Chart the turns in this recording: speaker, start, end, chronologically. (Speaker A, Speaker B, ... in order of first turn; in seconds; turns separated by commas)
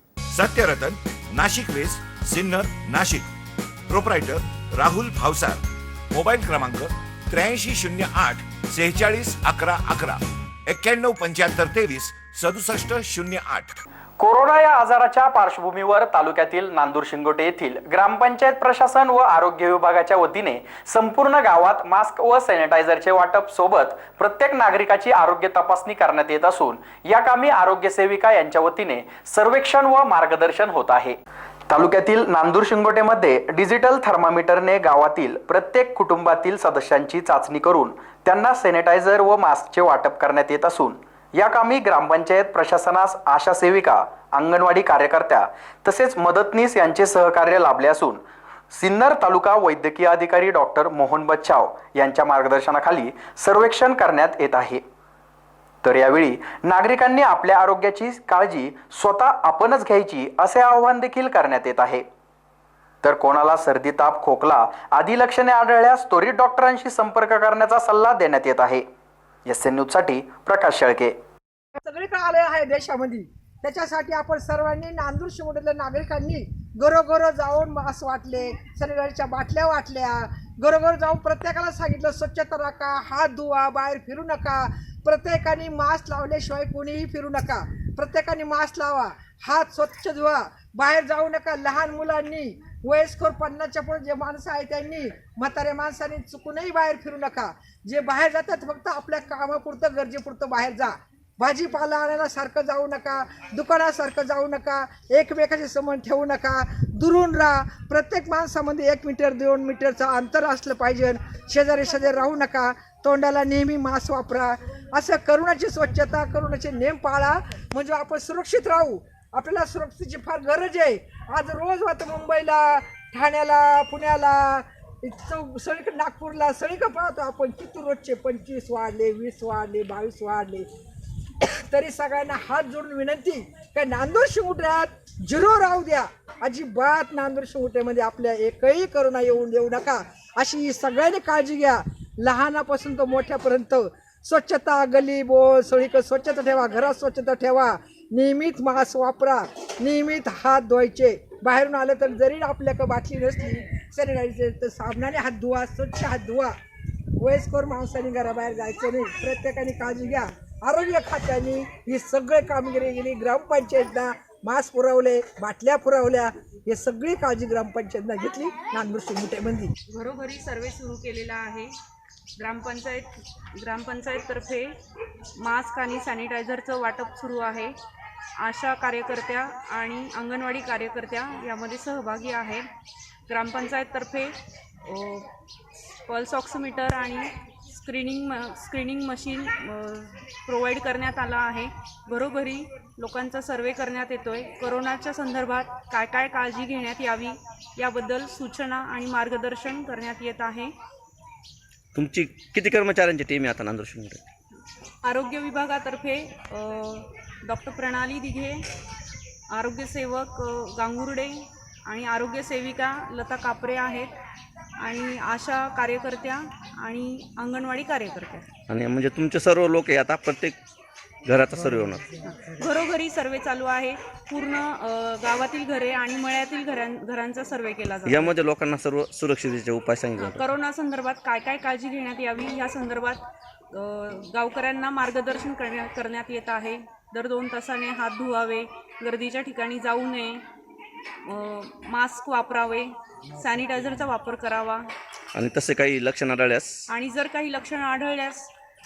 Speaker A: 0.3-3.3, Speaker A: 3.9-5.6, Speaker A: 6.1-13.8, Speaker B: 14.2-31.2, Speaker B: 31.7-54.8, Speaker B: 55.8-62.0, Speaker B: 63.0-68.8, Speaker B: 69.5-71.1, Speaker C: 71.8-130.7, Speaker C: 131.4-156.5, Speaker C: 157.2-169.7, Speaker D: 169.9-171.7, Speaker D: 172.4-174.7, Speaker D: 175.4-177.7, Speaker D: 178.4-182.7, Speaker D: 183.3-184.3, Speaker D: 184.8-185.3, Speaker D: 186.1-200.7, Speaker E: 201.9-204.2, Speaker D: 205.0-208.6, Speaker D: 209.5-214.1, Speaker D: 214.8-218.5, Speaker E: 218.7-220.6, Speaker E: 221.2-222.2, Speaker D: 222.2-228.3, Speaker E: 228.1-230.5, Speaker D: 230.2-240.4, Speaker D: 241.2-244.9, Speaker E: 245.3-246.8, Speaker D: 246.9-248.5